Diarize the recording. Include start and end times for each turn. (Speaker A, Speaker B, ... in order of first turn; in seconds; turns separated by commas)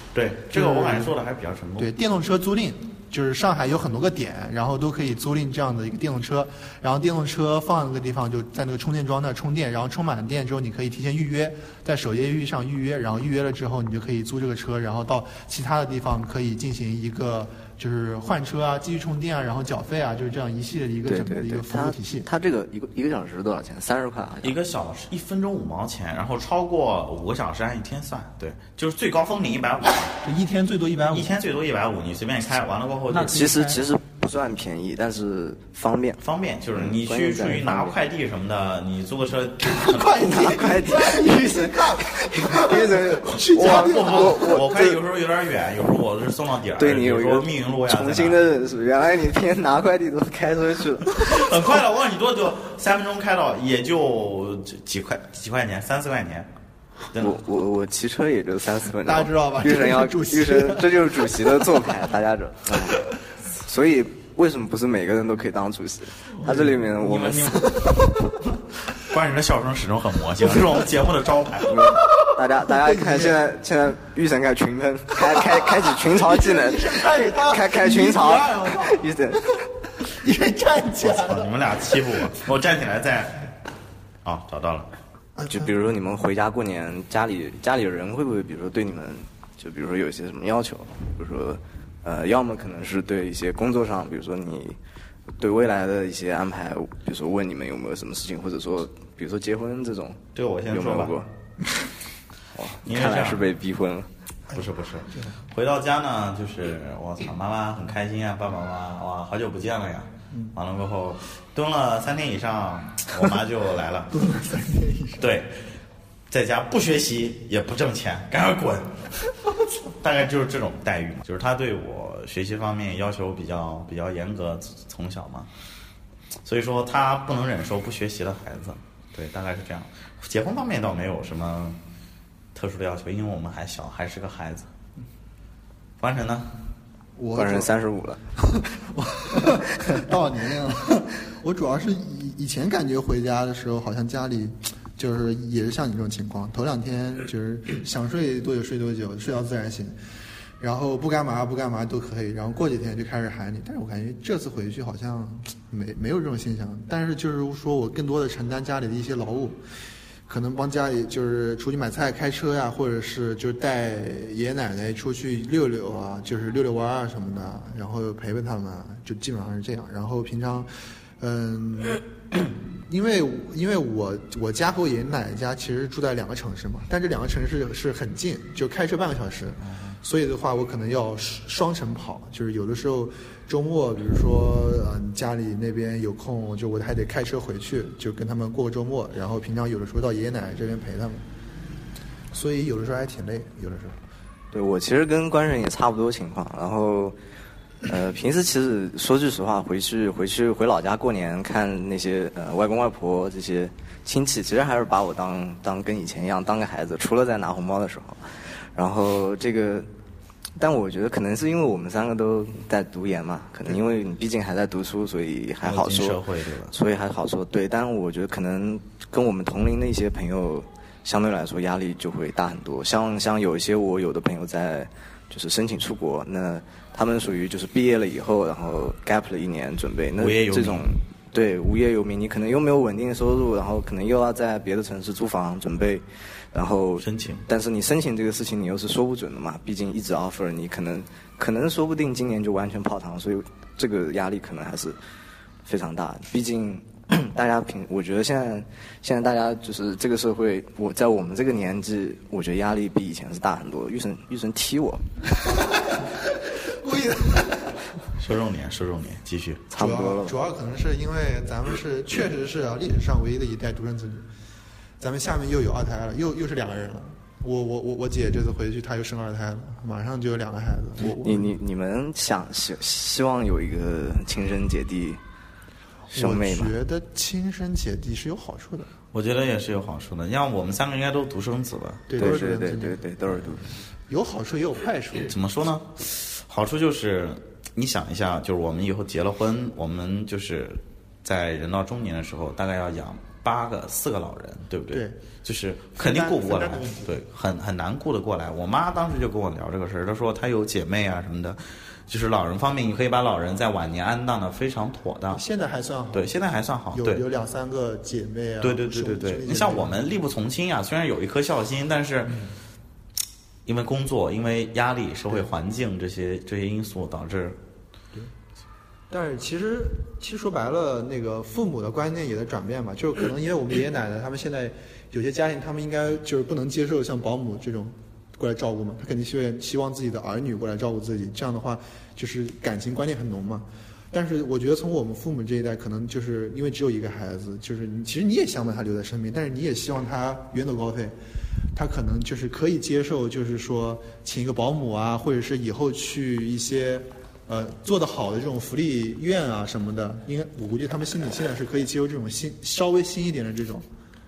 Speaker A: 0.1-1.9, Speaker B: 0.5-1.1, Speaker B: 1.8-22.3, Speaker C: 21.1-24.6, Speaker A: 24.4-30.1, Speaker B: 30.2-31.4, Speaker A: 31.1-33.5, Speaker C: 33.1-36.2, Speaker B: 33.2-33.8, Speaker A: 36.2-40.2, Speaker C: 36.8-38.0, Speaker B: 39.7-44.8, Speaker C: 40.2-45.0, Speaker A: 43.5-48.4, Speaker C: 46.8-51.4, Speaker A: 51.2-56.5, Speaker C: 57.2-67.7, Speaker B: 59.0-61.6, Speaker A: 66.5-68.1, Speaker A: 69.0-71.9, Speaker C: 71.7-79.6, Speaker B: 71.9-73.4, Speaker B: 75.5-79.5, Speaker B: 80.0-81.5, Speaker A: 81.0-83.5, Speaker A: 84.2-84.9, Speaker B: 85.4-85.7, Speaker C: 85.5-94.8, Speaker C: 95.4-101.3, Speaker A: 100.3-101.2, Speaker C: 102.5-104.1, Speaker A: 102.8-103.5, Speaker B: 104.5-105.3, Speaker A: 104.5-114.1, Speaker B: 114.1-115.3, Speaker A: 115.2-115.5, Speaker A: 116.3-119.0, Speaker A: 119.9-125.5, Speaker A: 126.4-131.8, Speaker A: 132.5-134.7, Speaker A: 136.0-136.5, Speaker B: 137.2-137.7, Speaker C: 137.3-138.2, Speaker B: 138.4-149.9, Speaker B: 150.6-159.6, Speaker B: 160.3-191.2, Speaker B: 192.3-193.9, Speaker C: 194.5-197.2, Speaker C: 197.8-209.9, Speaker C: 210.6-245.0, Speaker A: 215.6-216.7, Speaker A: 230.2-230.9, Speaker A: 237.0-237.4, Speaker C: 245.6-255.1, Speaker B: 255.5-257.8, Speaker A: 258.1-259.7, Speaker C: 259.7-260.3, Speaker B: 259.8-264.3, Speaker B: 265.0-271.5, Speaker C: 271.1-275.2, Speaker C: 276.1-276.7, Speaker B: 276.1-278.9, Speaker A: 279.1-282.1, Speaker B: 282.1-283.0, Speaker C: 282.1-283.7, Speaker B: 284.1-285.3, Speaker A: 285.2-305.4, Speaker B: 294.9-295.2, Speaker B: 295.9-297.1, Speaker B: 305.3-306.3, Speaker A: 306.1-307.2, Speaker B: 306.9-310.1, Speaker A: 308.6-312.4, Speaker A: 313.6-317.6, Speaker B: 319.1-341.1, Speaker B: 341.7-353.8